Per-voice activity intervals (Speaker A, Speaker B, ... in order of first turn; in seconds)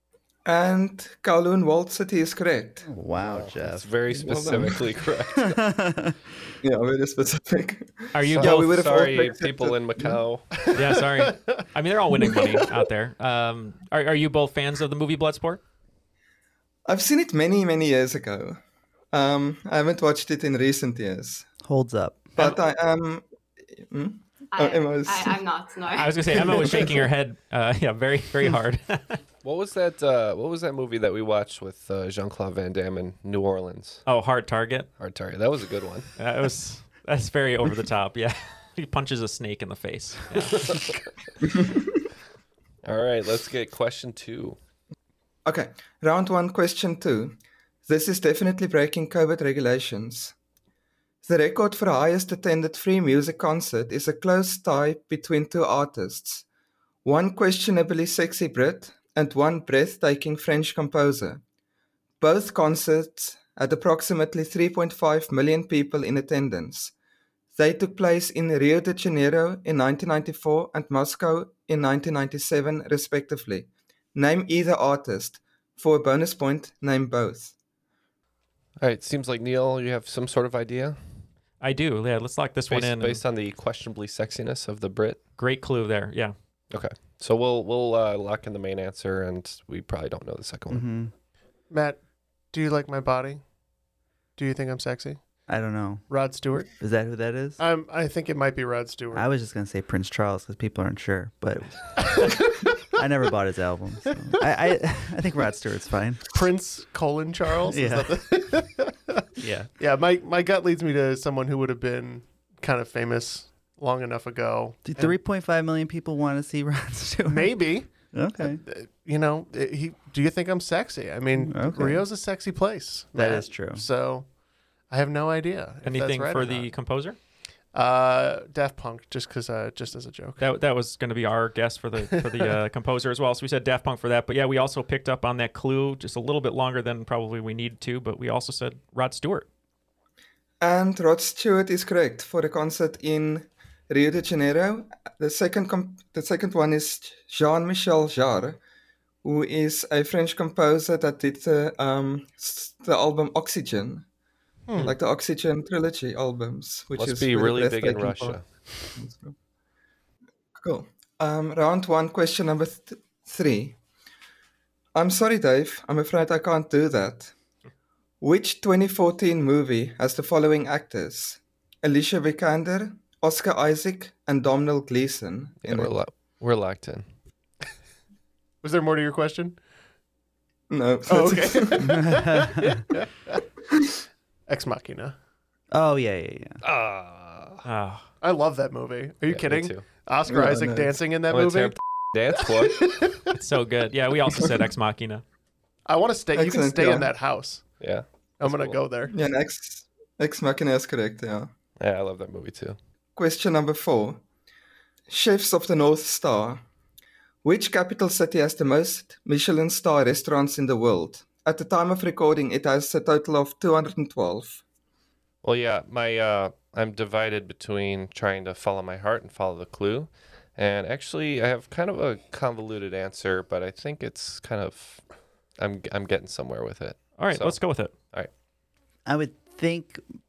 Speaker A: 0.5-2.9, 4.1-4.9, 6.6-10.2, 16.9-18.6, 19.1-21.5, 22.4-23.2, 23.8-25.4, 26.4-27.1, 41.4-41.9, 45.5-50.3, 51.2-56.5, 57.0-61.4, 62.2-66.9, 67.5-77.5, 140.6-148.6, 149.2-154.0, 154.8-159.3, 160.6-163.8, 164.9-167.3, 168.2-175.9, 180.7-181.9, 190.2-190.9, 196.3-197.1, 199.1-201.5, 203.2-204.2, 205.1-206.6, 207.4-214.6
Speaker B: 2.8-4.0, 5.4-6.2, 21.6-22.3, 90.7-91.1, 95.5-97.6, 99.1-101.8, 103.0-106.3, 107.7-108.2, 109.4-109.7, 114.8-118.6, 121.4-122.0, 123.1-123.8, 181.8-182.8, 185.7-186.6, 229.1-230.0
Speaker C: 3.2-5.6, 8.3-10.5, 29.4-34.0, 35.0-36.1, 40.5-40.9, 42.8-44.6, 78.8-81.0, 82.7-85.2, 86.7-90.8, 156.9-158.4, 175.6-177.1, 186.6-187.7, 189.3-189.8, 191.3-192.9, 197.8-198.8, 201.8-202.8, 215.4-225.0, 225.6-228.3
Speaker D: 8.1-8.8, 10.7-15.6, 25.9-29.2, 34.0-34.9, 36.2-40.8, 81.6-83.2, 85.4-86.3, 125.8-127.2, 130.4-139.5, 187.6-188.1, 193.3-195.2, 227.2-227.9
Speaker E: 10.6-11.6, 91.7-93.4, 94.4-95.2, 96.1-96.7, 97.6-99.3, 102.1-102.5, 106.3-109.2, 109.8-115.2, 117.2-124.3, 124.9-126.7, 127.7-130.4, 132.1-132.5, 154.7-154.9, 178.6-179.6, 181.1-183.4, 184.5-185.2, 188.2-191.8, 192.5-193.2, 195.8-197.6, 198.4-199.1
Speaker F: 24.5-26.8